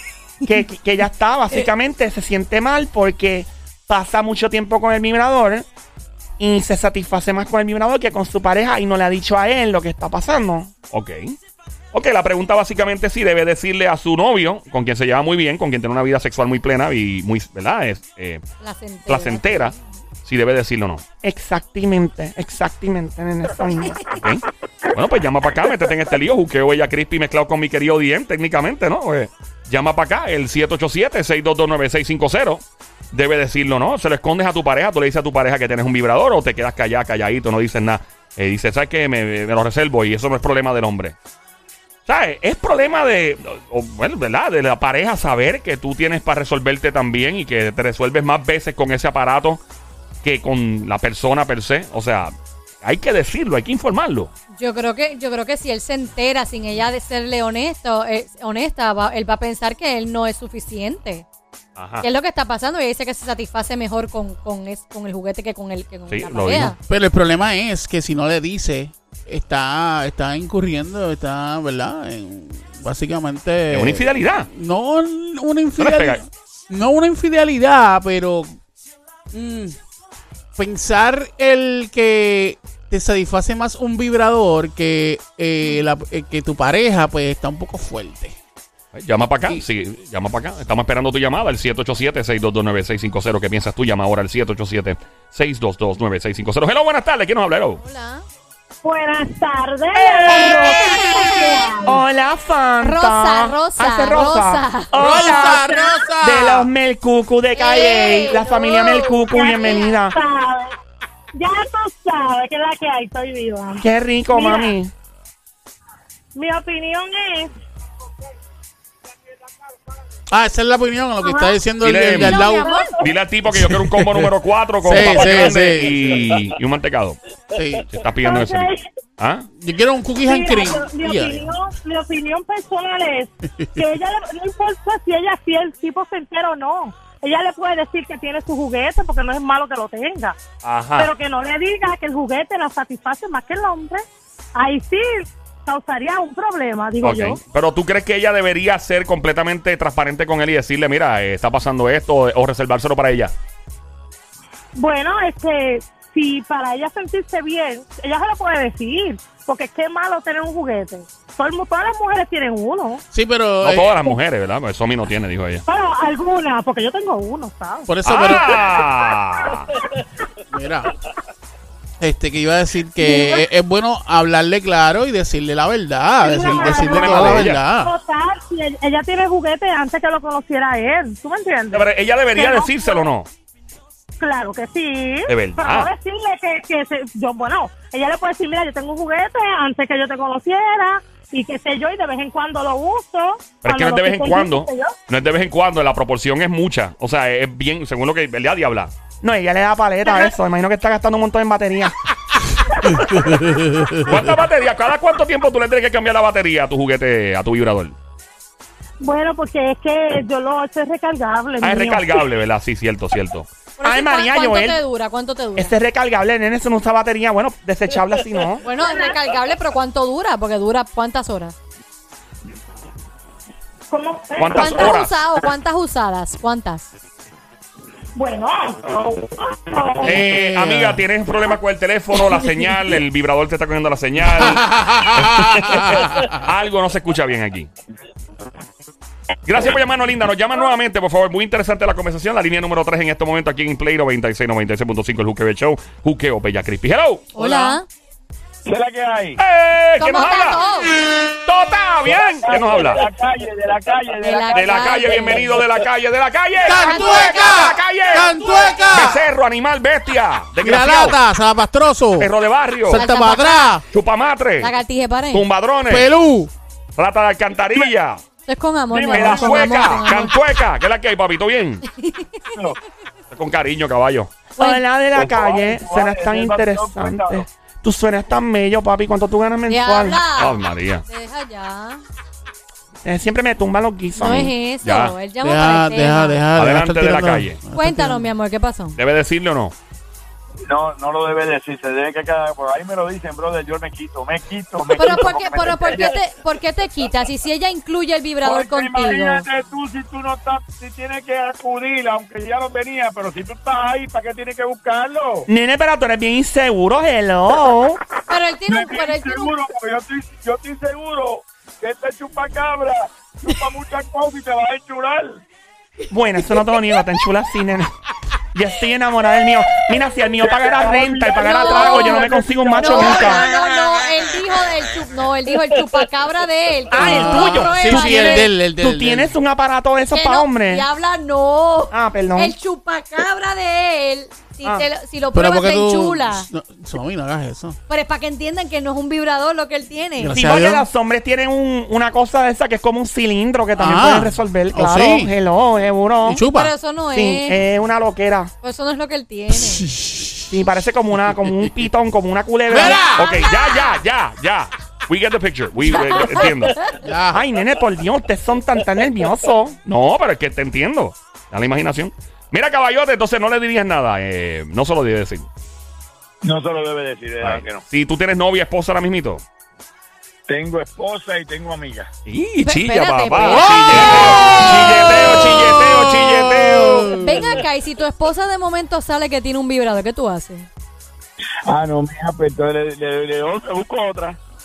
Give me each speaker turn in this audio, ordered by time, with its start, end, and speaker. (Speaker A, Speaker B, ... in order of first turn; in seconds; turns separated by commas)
Speaker A: 0.4-5.7, Speaker A: 6.4-10.7, Speaker B: 10.9-11.3, Speaker B: 11.9-18.4, Speaker C: 18.6-19.8, Speaker B: 19.1-21.0, Speaker A: 21.2-24.0, Speaker B: 24.1-41.1, Speaker B: 42.0-49.6, Speaker B: 50.2-54.3, Speaker C: 54.6-61.2, Speaker B: 61.8-62.0, Speaker C: 62.0-66.8, Speaker B: 66.1-66.7, Speaker D: 66.8-78.6, Speaker B: 73.7-74.5, Speaker B: 75.8-76.2, Speaker D: 79.3-79.8, Speaker D: 80.5-88.4, Speaker B: 88.9-97.8, Speaker C: 97.8-98.2, Speaker E: 98.8-102.0, Speaker A: 100.0-100.8, Speaker D: 100.3-101.5, Speaker A: 101.8-110.2, Speaker C: 102.8-105.8, Speaker D: 104.9-106.7, Speaker C: 107.5-109.8, Speaker E: 109.3-110.7, Speaker E: 111.3-114.8, Speaker A: 113.8-114.9, Speaker E: 116.3-117.5, Speaker D: 120.3-122.8, Speaker E: 121.2-121.6, Speaker B: 121.8-122.4, Speaker C: 122.1-123.0, Speaker E: 122.5-123.1, Speaker B: 123.0-127.2, Speaker D: 123.5-126.2, Speaker D: 127.5-127.9, Speaker B: 127.9-129.5, Speaker E: 128.2-128.9, Speaker D: 129.6-131.5, Speaker E: 130.2-140.3, Speaker D: 133.5-133.8, Speaker B: 140.6-141.1, Speaker E: 141.0-144.0, Speaker E: 144.5-147.4, Speaker B: 147.0-153.3, Speaker E: 154.8-163.0, Speaker D: 163.1-164.2, Speaker B: 163.6-165.6, Speaker E: 165.7-168.3, Speaker D: 167.9-168.7, Speaker B: 168.0-169.7, Speaker D: 170.5-170.9, Speaker D: 172.0-177.9, Speaker E: 173.0-173.4, Speaker E: 176.2-183.1, Speaker B: 176.4-177.6, Speaker B: 181.7-183.3, Speaker E: 184.2-194.9, Speaker B: 185.3-185.9, Speaker B: 193.6-198.9, Speaker A: 199.2-201.9, Speaker D: 202.9-204.3, Speaker B: 204.0-207.9, Speaker E: 209.0-212.3, Speaker B: 211.6-213.5, Speaker C: 213.8-215.7, Speaker A: 213.8-214.8, Speaker A: 215.5-218.6, Speaker C: 218.6-221.5, Speaker E: 218.7-219.2, Speaker E: 223.9-225.0, Speaker B: 224.4-225.1, Speaker C: 224.5-226.9, Speaker E: 228.2-230.2, Speaker D: 230.0-231.0, Speaker B: 230.0-237.7, Speaker D: 234.3-236.4, Speaker B: 239.4-247.3, Speaker C: 247.3-247.9, Speaker D: 247.4-247.8, Speaker F: 248.7-249.4, Speaker B: 249.4-250.6, Speaker C: 250.0-250.9, Speaker B: 251.4-253.1, Speaker F: 252.1-255.8, Speaker C: 254.2-255.6, Speaker B: 254.5-258.4, Speaker D: 256.6-259.2, Speaker C: 256.7-257.7, Speaker B: 258.9-261.2, Speaker D: 260.6-262.3, Speaker B: 262.2-263.0, Speaker D: 262.9-263.8, Speaker C: 262.9-263.8, Speaker B: 263.9-264.7, Speaker C: 264.6-265.5, Speaker B: 265.3-266.1, Speaker D: 265.9-266.5, Speaker B: 267.0-268.2, Speaker C: 268.4-270.4, Speaker F: 268.9-269.8, Speaker B: 269.1-271.8, Speaker C: 271.8-272.4, Speaker B: 273.3-274.4, Speaker A: 274.6-280.2, Speaker F: 275.1-277.4, Speaker C: 279.7-282.0, Speaker B: 280.4-281.0, Speaker A: 283.0-284.5, Speaker C: 284.1-286.4, Speaker B: 284.8-285.1, Speaker D: 285.4-288.3, Speaker B: 286.5-287.6, Speaker C: 287.7-289.0, Speaker B: 289.0-289.7, Speaker F: 290.6-296.2, Speaker C: 294.9-299.4, Speaker F: 298.4-305.5, Speaker A: 305.5-308.0, Speaker C: 308.3-309.5, Speaker F: 308.6-315.4, Speaker A: 316.1-317.9, Speaker A: 318.5-323.4, Speaker F: 320.4-323.6, Speaker C: 321.3-328.5, Speaker A: 326.9-330.8, Speaker D: 327.0-329.3, Speaker C: 330.1-336.5, Speaker A: 331.9-332.5, Speaker D: 335.3-337.8, Speaker C: 337.9-340.3, Speaker D: 340.2-340.9, Speaker A: 340.3-346.4, Speaker D: 343.8-345.3, Speaker D: 346.2-346.7, Speaker C: 346.5-347.6, Speaker A: 347.1-348.5, Speaker C: 348.6-349.9, Speaker D: 349.5-350.5, Speaker A: 350.5-353.0, Speaker D: 352.7-353.5, Speaker B: 353.1-356.8, Speaker D: 357.0-357.4, Speaker A: 357.3-359.8, Speaker B: 359.8-365.5, Speaker F: 366.4-367.8, Speaker B: 367.4-369.4, Speaker F: 370.5-372.1, Speaker B: 372.2-377.1, Speaker C: 372.6-375.4, Speaker D: 373.3-377.5, Speaker C: 377.0-380.7, Speaker F: 381.6-384.4